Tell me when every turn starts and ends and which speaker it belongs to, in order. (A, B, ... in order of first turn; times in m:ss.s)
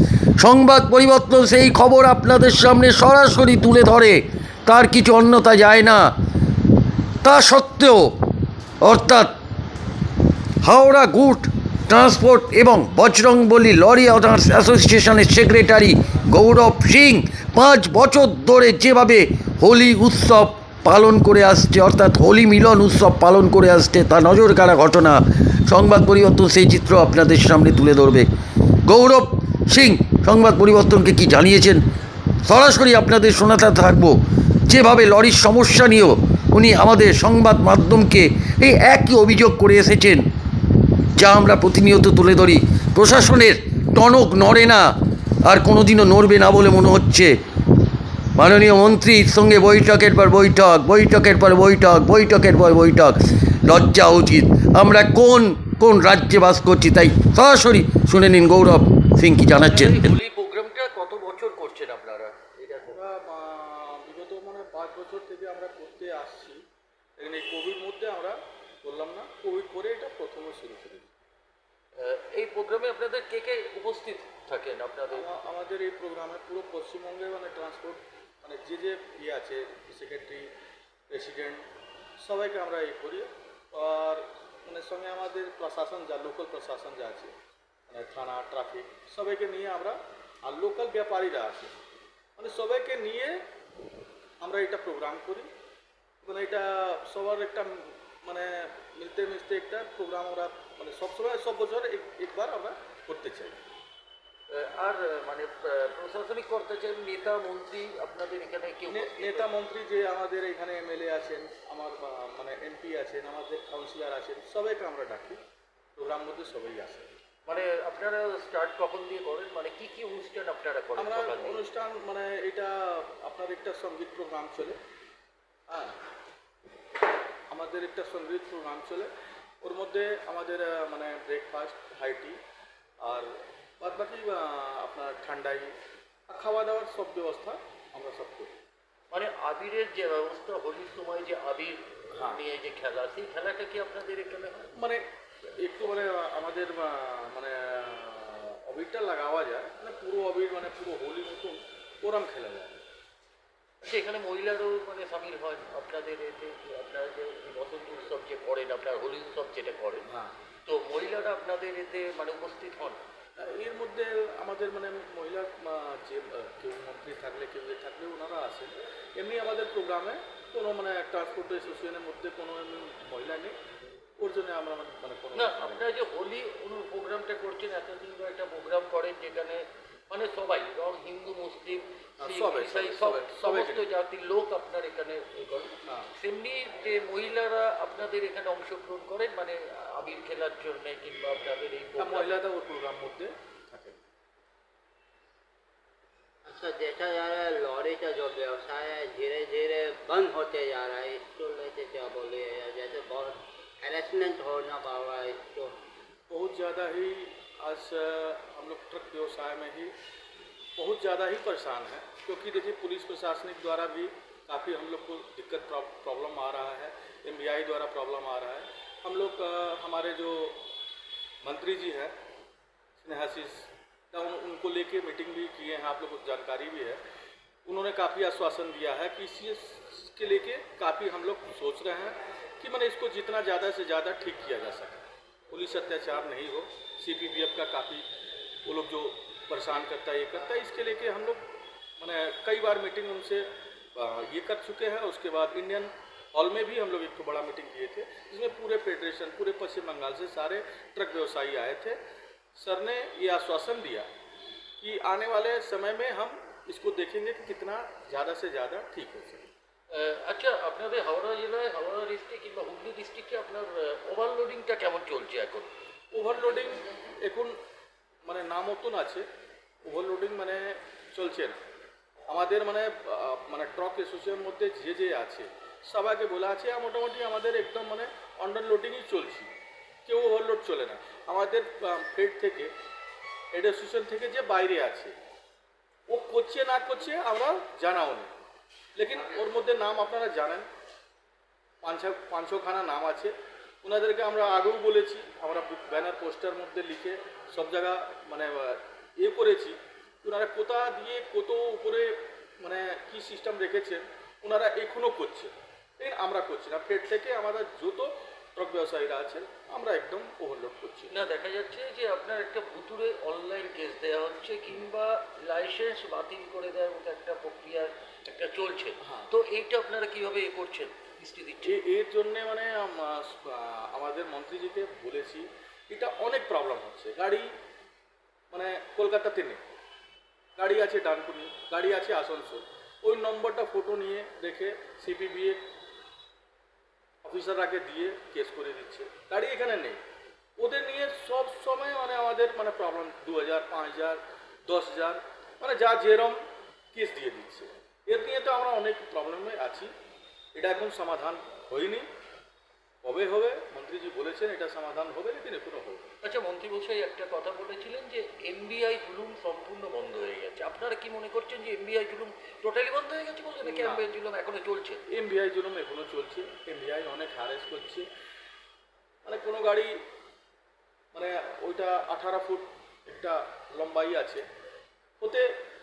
0:00.4-0:06.1 A
0:07.2-0:08.2 A
0:08.8-0:09.4 A
0:10.6-0:28.3 A
0:28.8-0:31.8 A
0:32.4-0:40.3 A
0:41.2-0:44.9 A
0:45.4-0:47.4 A
0:48.4-1:00.0 A
0:59.6-1:03.0 B
1:02.9-1:06.6 C
1:07.2-1:11.1 C
1:12.0-1:15.3 B
1:15.1-1:20.5 C
1:21.1-1:21.7 C
1:22.2-1:27.3 C
1:27.9-1:31.7 C
1:32.4-1:33.4 C
1:34.4-1:35.5 C
1:36.2-1:43.6 C
1:44.5-1:49.5 B
1:48.9-1:55.4 C
1:56.0-1:57.1 C
1:57.5-2:01.7 B
2:01.0-2:04.8 C
2:05.7-2:06.0 C
2:07.5-2:09.1 C
2:09.6-2:12.4 C
2:13.0-2:15.7 C
2:16.3-2:18.6 C
2:19.1-2:24.7 B
2:22.2-2:22.4 C
2:24.8-2:25.0 C
2:25.6-2:32.8 C
2:33.8-2:40.1 B
2:40.1-2:40.3 C
2:40.7-2:43.0 B
2:43.4-2:53.6 C
2:54.2-2:55.9 C
2:55.3-3:12.4 B
3:02.2-3:03.9 C
3:05.9-3:06.1 C
3:12.0-3:14.0 C
3:16.5-3:25.8 D
3:26.3-3:29.9 C
3:30.8-3:40.6 C
3:41.4-3:42.2 C
3:43.0-3:47.0 C
3:47.7-3:58.1 C
3:58.6-4:01.5 C
4:02.0-4:12.0 C
4:12.6-4:14.1 C
4:14.8-4:19.5 C
4:19.9-4:25.7 B
4:26.1-4:27.6 C
4:28.2-4:29.3 C
4:29.8-4:31.6 C
4:32.3-4:39.5 C
4:40.0-4:42.7 C
4:43.5-4:45.2 C
4:46.1-4:48.3 C
4:49.0-4:50.7 C
4:51.8-5:11.1 C
5:11.1-5:21.8 B
5:19.0-5:19.3 C
5:21.6-5:27.5 C
5:28.5-5:29.6 C
5:30.6-5:35.6 C
5:37.2-5:40.0 C
5:40.6-5:46.4 C
5:46.9-5:49.9 C
5:50.6-5:52.1 C
5:53.0-5:56.1 C
5:56.2-6:05.0 B
6:03.6-6:04.1 C
6:05.1-6:08.1 C
6:09.2-6:10.0 C
6:11.1-6:14.4 C
6:15.2-6:15.6 C